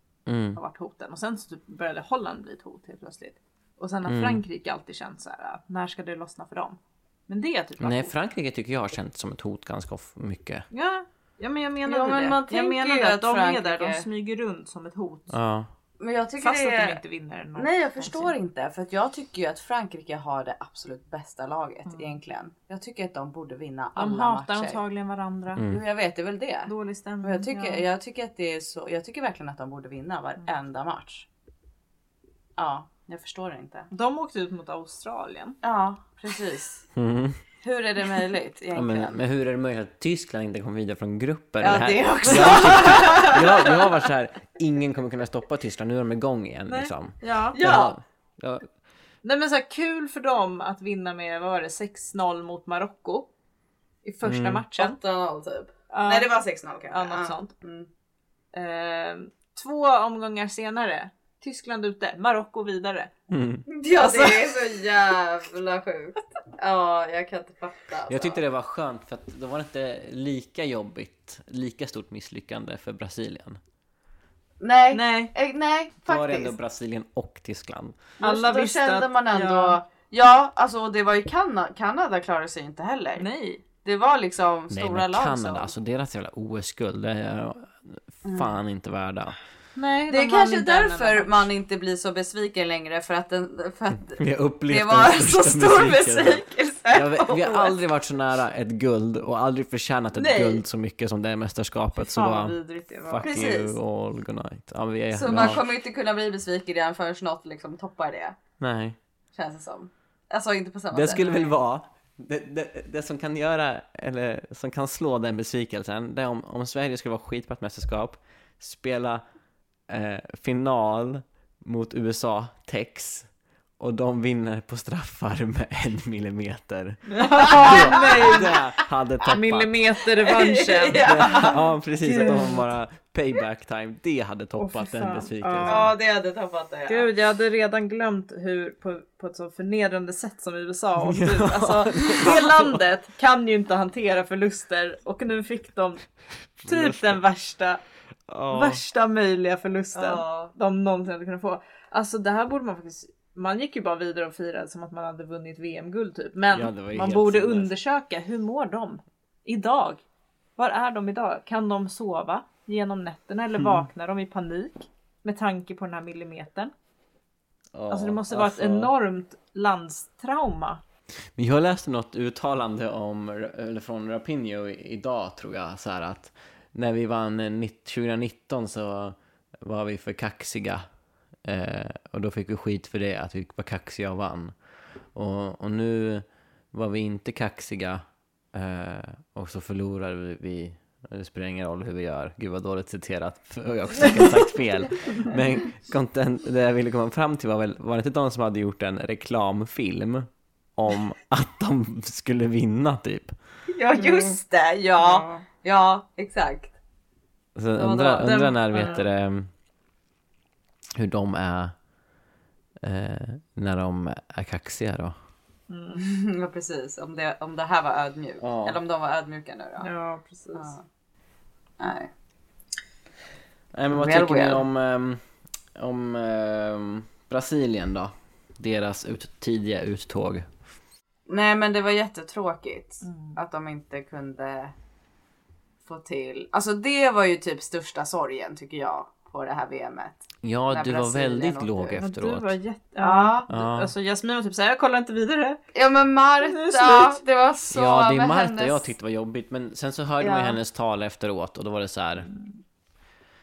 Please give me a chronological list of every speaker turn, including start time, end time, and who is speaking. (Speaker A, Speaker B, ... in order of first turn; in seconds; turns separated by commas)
Speaker A: 0.2-0.6, Speaker B: 0.5-8.1, Speaker A: 4.0-4.4, Speaker A: 7.8-10.7, Speaker B: 10.7-15.3, Speaker C: 11.8-14.1, Speaker A: 15.3-15.7, Speaker C: 16.0-17.0, Speaker B: 16.4-18.3, Speaker C: 17.6-24.8, Speaker B: 21.9-22.1, Speaker B: 23.9-25.6, Speaker A: 25.5-25.8, Speaker C: 25.6-31.2, Speaker B: 26.6-27.8, Speaker C: 32.6-33.9, Speaker B: 33.9-35.6, Speaker C: 35.6-36.9, Speaker A: 36.9-37.4, Speaker C: 37.6-39.2, Speaker A: 38.7-48.7, Speaker C: 41.6-43.8, Speaker B: 46.7-47.6, Speaker C: 47.5-48.0, Speaker B: 49.2-53.3, Speaker B: 54.0-55.0, Speaker A: 54.2-54.6, Speaker C: 54.8-57.9, Speaker B: 55.9-56.3, Speaker B: 56.9-57.5, Speaker B: 58.5-63.1, Speaker A: 63.3-63.6, Speaker C: 63.7-68.4, Speaker B: 63.9-64.5, Speaker A: 68.1-73.6, Speaker C: 74.6-76.5, Speaker B: 74.9-75.3, Speaker A: 76.0-78.0, Speaker C: 78.2-83.2, Speaker B: 78.2-79.8, Speaker B: 83.2-83.6, Speaker C: 83.8-85.7, Speaker A: 84.7-89.3, Speaker C: 88.2-88.6, Speaker B: 89.8-91.5, Speaker C: 90.1-97.8, Speaker A: 94.1-105.6, Speaker C: 100.1-100.6, Speaker B: 102.0-103.3, Speaker C: 103.2-103.8, Speaker C: 105.1-108.4, Speaker A: 108.6-109.0, Speaker C: 109.3-111.5, Speaker A: 110.9-119.2, Speaker A: 119.9-129.8, Speaker B: 127.1-128.5, Speaker C: 127.4-128.5, Speaker B: 129.2-132.6, Speaker C: 130.2-131.6, Speaker A: 131.0-135.9, Speaker B: 134.6-135.9, Speaker C: 135.7-137.1, Speaker B: 136.9-146.0, Speaker A: 141.0-142.8, Speaker A: 146.6-147.2, Speaker B: 146.6-147.8, Speaker A: 148.3-148.8, Speaker B: 148.5-160.0, Speaker C: 149.9-150.5, Speaker A: 156.5-157.7, Speaker B: 160.6-166.7, Speaker A: 163.6-163.8, Speaker A: 167.7-168.9, Speaker B: 167.9-170.8, Speaker A: 171.3-180.8, Speaker A: 181.4-184.6, Speaker A: 185.1-203.3, Speaker C: 203.7-206.7, Speaker B: 203.9-204.4, Speaker B: 205.0-205.4, Speaker A: 207.6-209.5, Speaker C: 207.8-208.9, Speaker B: 208.2-209.0, Speaker A: 210.9-211.7, Speaker A: 212.8-215.1, Speaker B: 215.7-216.0, Speaker C: 215.9-219.9, Speaker A: 218.4-218.8, Speaker B: 219.8-220.7, Speaker C: 220.5-220.8, Speaker C: 221.8-222.1, Speaker A: 223.7-225.2, Speaker C: 223.9-224.6, Speaker A: 225.7-230.5, Speaker C: 231.3-234.7, Speaker B: 233.0-233.4, Speaker C: 235.8-242.0, Speaker A: 240.4-242.5, Speaker B: 242.0-245.6, Speaker C: 243.0-243.5, Speaker A: 243.5-243.9, Speaker C: 245.7-248.9, Speaker B: 246.4-247.2, Speaker A: 247.7-252.3, Speaker C: 250.2-250.6, Speaker B: 252.2-252.6